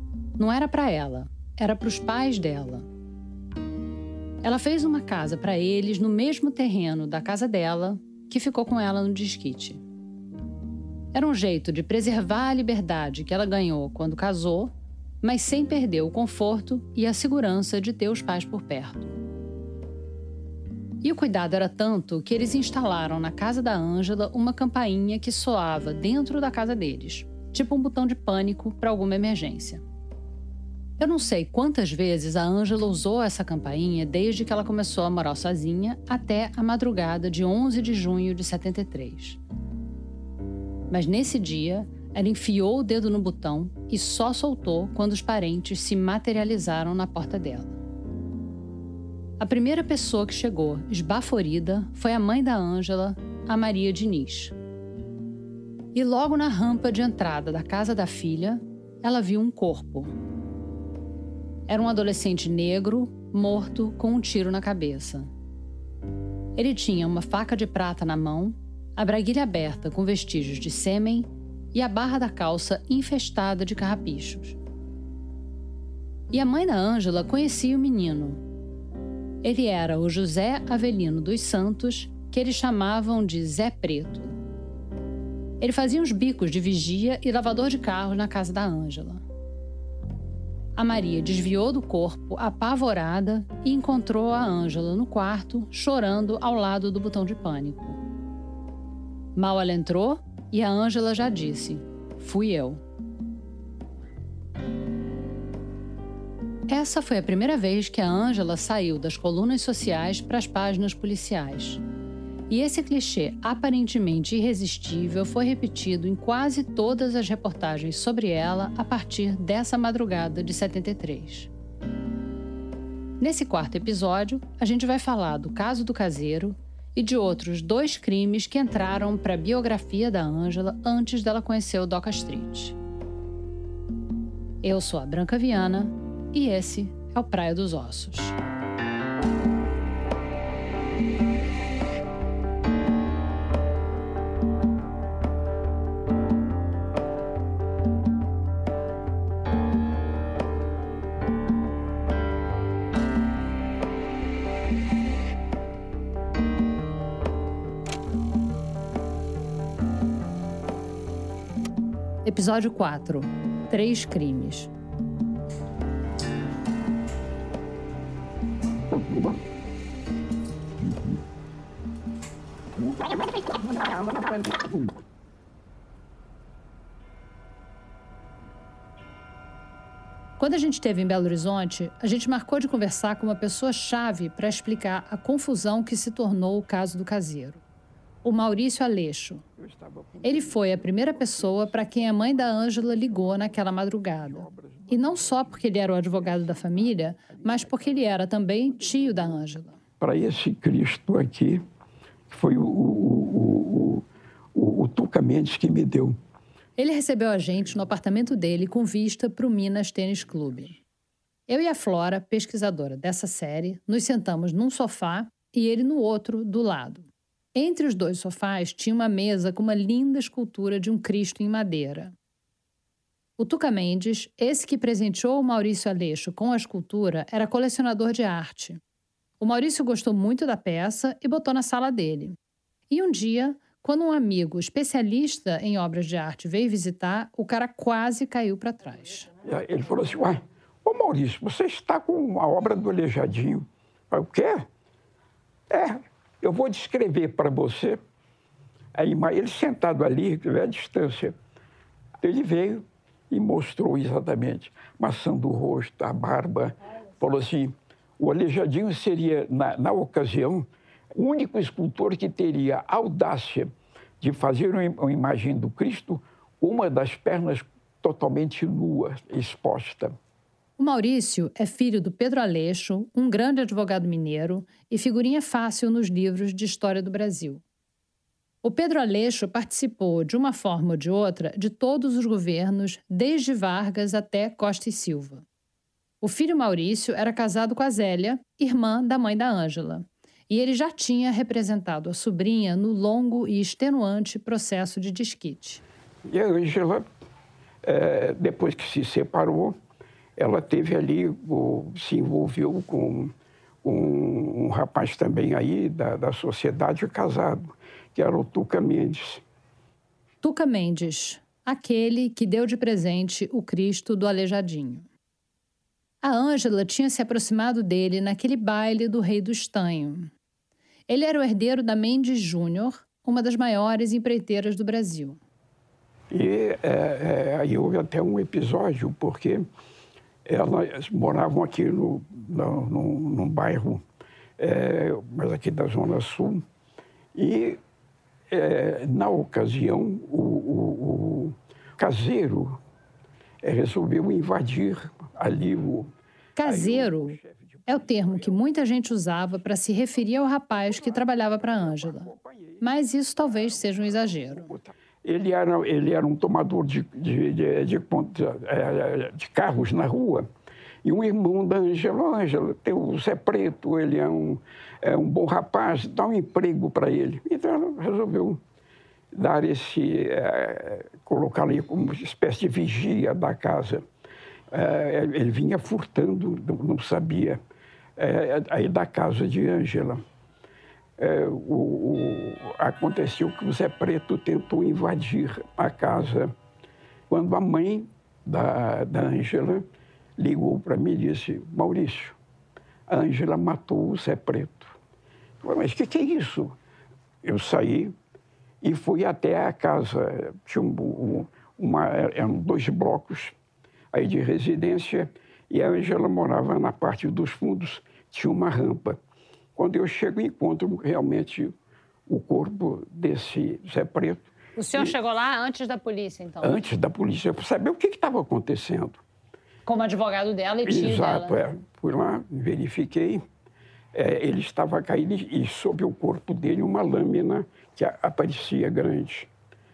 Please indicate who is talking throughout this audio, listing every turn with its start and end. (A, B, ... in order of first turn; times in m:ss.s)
0:00.4-0:02.8 A
0:04.4-0:09.8 A
0:11.1-0:19.1 A
0:21.0-0:29.8 A
0:31.0-0:39.4 A
0:40.9-0:47.8 A
0:49.4-0:54.5 A
0:55.9-1:00.1 A
1:01.7-1:05.3 A
1:06.6-1:14.6 A
1:16.3-1:18.4 A
1:19.4-1:24.3 A
1:25.6-1:29.2 A
1:30.8-1:38.0 A
1:39.4-1:42.8 A
1:46.7-1:51.8 A
1:52.5-2:01.5 A
2:03.2-2:12.8 A
2:14.6-2:18.3 A
2:42.2-2:44.7 A
3:00.4-3:07.6 A
3:08.2-3:09.4 A
3:09.6-3:13.2 B
3:10.2-3:19.8 A
3:14.2-3:18.0 B
3:20.0-3:21.6 B
3:22.3-3:26.2 B
3:26.8-3:30.8 A
3:31.5-3:42.1 A
3:43.4-3:48.8 A
3:49.4-3:52.4 A
3:52.9-3:59.3 A
3:59.4-4:04.6 B
4:05.7-4:08.0 B
4:08.9-4:11.3 B
4:12.2-4:30.2 B
4:30.8-4:37.6 A
4:38.6-4:45.4 A
4:46.2-4:55.8 A
4:56.2-4:57.0 B
4:57.8-4:59.8 B
5:00.4-5:09.4 B
5:10.4-5:15.1 A
5:16.2-5:20.3 A
5:21.1-5:25.4 A
5:26.3-5:29.7 B
5:30.4-5:34.0 B
5:34.6-5:36.6 B
5:37.3-5:37.8 B
5:38.5-5:42.8 B
5:43.6-5:46.1 B
5:46.6-5:52.3 A
5:46.6-5:48.7 B
5:50.8-5:52.8 B
5:52.8-5:54.7 A
5:53.4-6:00.5 B
6:01.0-6:08.6 B
6:09.3-6:14.0 B
6:14.7-6:17.6 B
6:18.2-6:20.2 B
6:21.2-6:26.5 B
6:27.3-6:29.8 B
6:30.4-6:32.4 B
6:33.1-6:35.0 B
6:35.6-6:36.8 B
6:37.4-6:38.1 B
6:38.8-6:43.5 B
6:44.1-6:49.2 B
6:49.7-6:51.7 B
6:52.3-6:55.1 B
6:54.8-6:56.8 A
6:56.6-6:59.2 B
6:59.8-7:01.6 A
7:00.8-7:03.4 B
7:04.1-7:09.5 B